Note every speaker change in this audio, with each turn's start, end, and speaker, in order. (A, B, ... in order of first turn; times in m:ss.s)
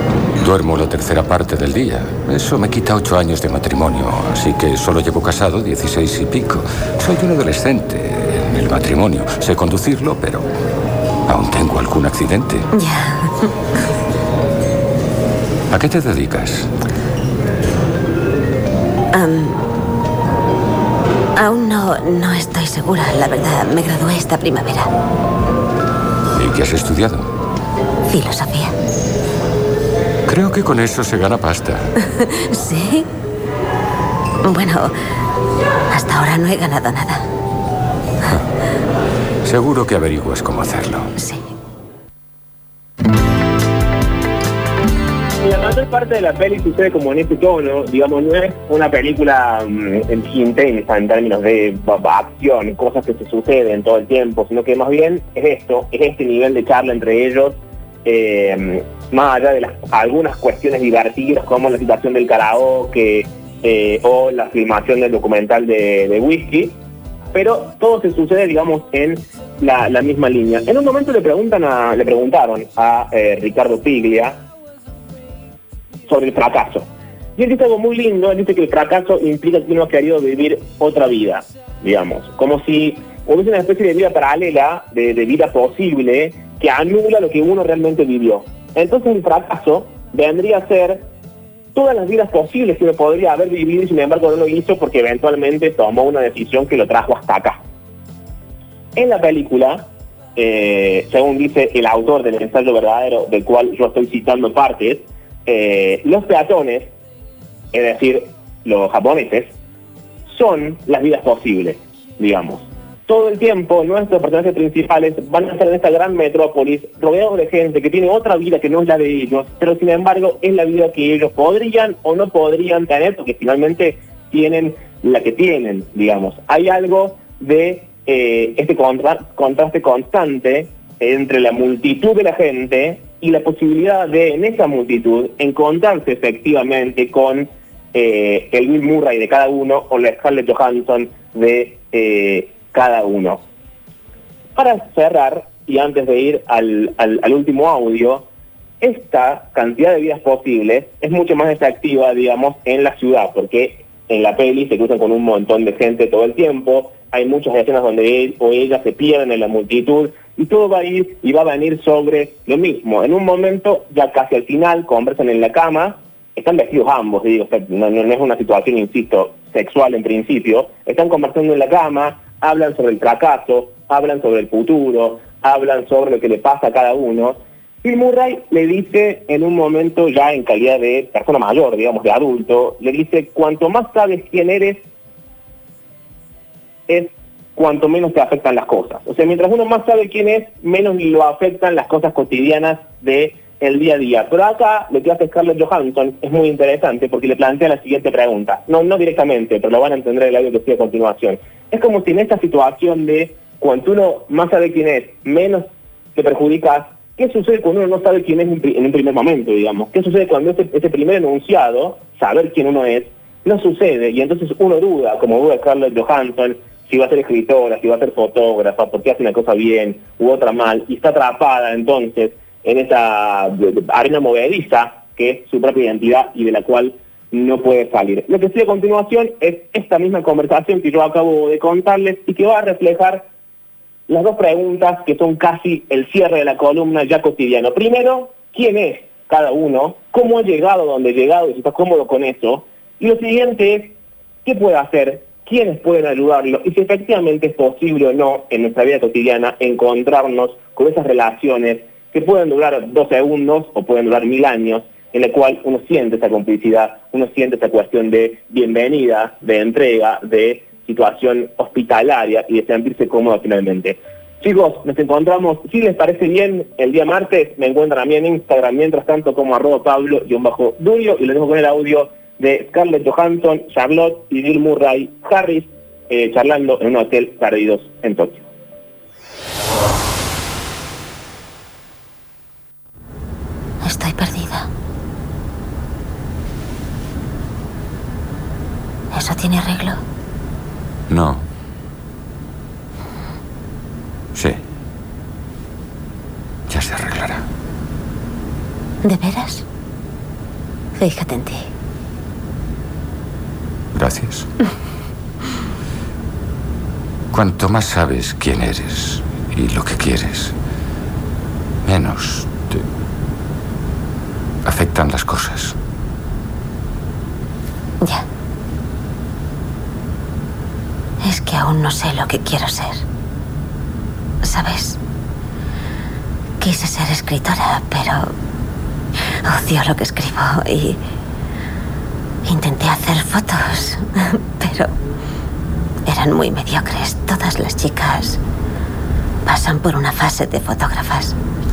0:00.4-0:10.5 A
0:11.3-0:12.7 A
0:12.7-0:13.5 B
0:15.7-0:16.7 A
0:19.1-0:19.6 B
0:21.4-0:24.9 B
0:26.3-0:27.3 A
0:28.1-0:28.7 B
0:30.2-0:31.9 A
0:32.2-0:33.1 B
0:34.4-0:34.9 B
0:35.9-0:37.2 B
0:39.4-0:41.1 A
0:41.2-0:41.5 B
0:45.4-1:06.8 C
1:07.3-1:14.4 C
1:16.1-1:31.1 C
1:31.7-1:37.6 C
1:38.9-1:46.9 C
1:47.7-1:49.6 C
1:50.3-2:23.4 C
2:24.5-2:28.3 C
2:28.8-3:04.8 C
3:06.9-3:53.3 C
3:54.1-4:38.4 C
4:43.8-4:44.7 B
4:49.1-4:50.0 B
4:51.1-4:51.5 A
4:54.3-4:54.6 A
4:56.7-4:57.4 A
4:59.0-4:59.6 B
5:01.0-5:01.6 B
5:03.9-5:04.5 A
5:07.3-5:10.6 A
5:11.8-5:12.8 A
5:14.6-5:15.8 A
5:21.2-5:23.0 B
5:24.4-5:25.0 B
5:26.6-5:28.3 B
5:29.4-5:31.0 B
5:32.4-5:34.9 B
5:36.0-5:38.4 B
5:39.4-5:41.4 B